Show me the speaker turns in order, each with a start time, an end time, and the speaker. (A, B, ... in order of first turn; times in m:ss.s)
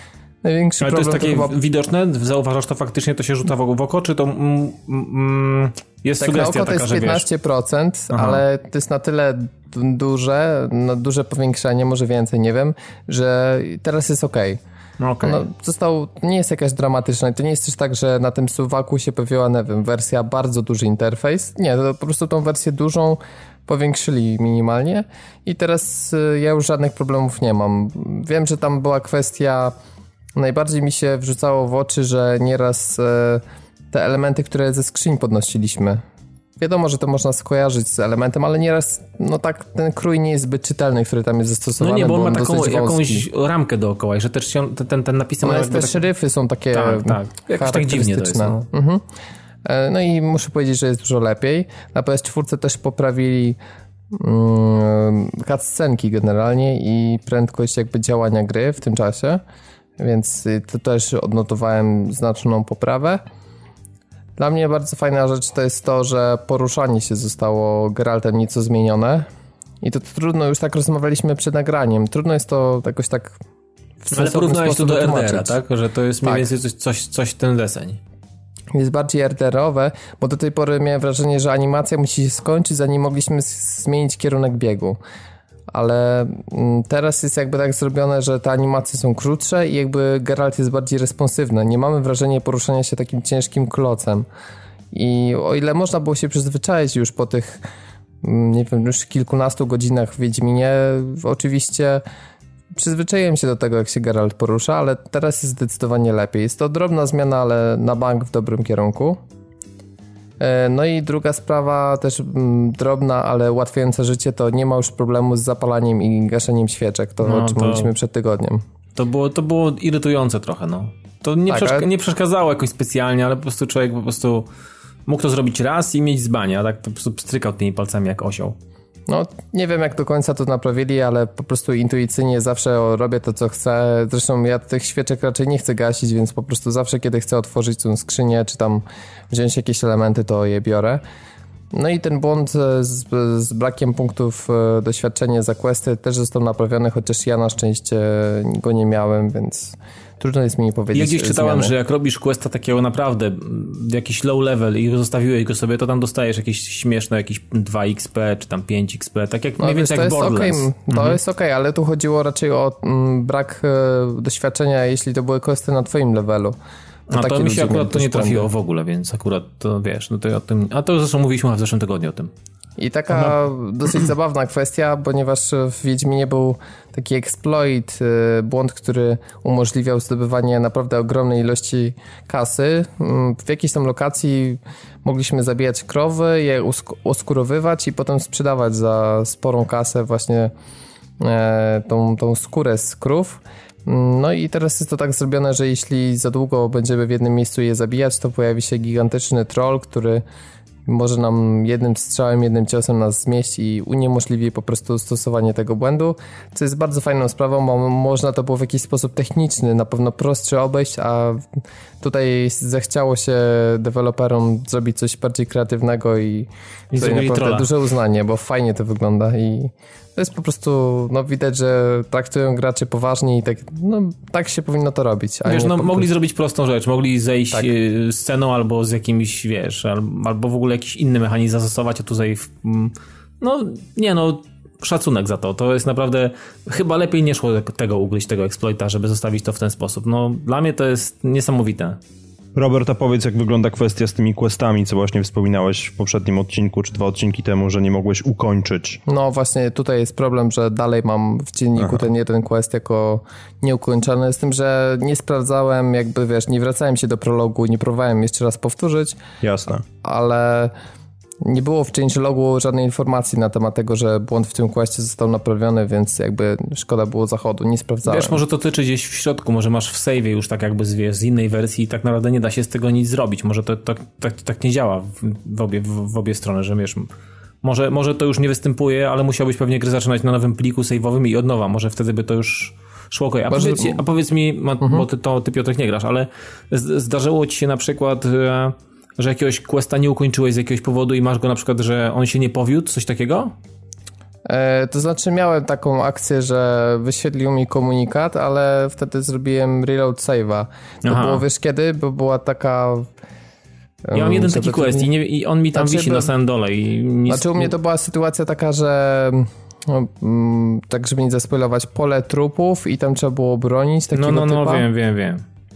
0:00.4-0:01.6 A
0:00.8-0:07.2 B
0:06.2-0:14.6 A
0:08.1-0:08.4 B
0:15.0-0:15.4 B
0:15.2-0:29.7 A
0:30.3-0:36.0 A
0:36.6-0:43.2 A
0:41.8-0:46.0 B
0:45.4-0:49.0 A
0:46.7-0:48.6 B
0:49.6-0:53.6 A
0:54.1-0:59.4 A
1:00.0-1:03.2 A
1:04.4-1:09.3 A
1:09.8-1:13.4 A
1:14.0-1:15.6 A
1:14.1-1:18.0 B
1:18.7-1:25.0 A
1:25.7-1:34.2 A
1:34.9-1:37.6 A
1:38.2-1:42.0 A
1:42.7-1:49.2 A
1:50.4-1:58.6 A
1:57.2-1:57.9 B
1:59.0-2:04.5 B
2:01.5-2:01.9 A
2:05.0-2:08.6 B
2:09.1-2:21.0 A
2:21.7-2:31.7 A
2:30.9-2:41.2 B
2:39.6-2:46.6 A
2:47.1-2:52.3 B
2:47.1-2:48.5 A
2:52.8-3:10.5 A
3:11.2-3:20.2 A
3:20.8-3:46.1 A
3:36.9-3:37.7 B
3:45.4-4:02.0 B
4:02.5-4:09.0 C
4:09.0-4:19.2 A
4:19.4-4:19.8 C
4:20.0-4:20.7 A
4:21.4-4:28.4 A
4:28.0-4:37.1 B
4:37.6-4:53.5 B
4:43.5-4:44.0 A
4:54.4-5:03.1 A
5:01.0-5:01.4 B
5:04.0-5:05.1 A
5:04.1-5:07.7 B
5:05.7-5:06.3 A
5:07.3-5:14.9 A
5:14.1-5:15.4 B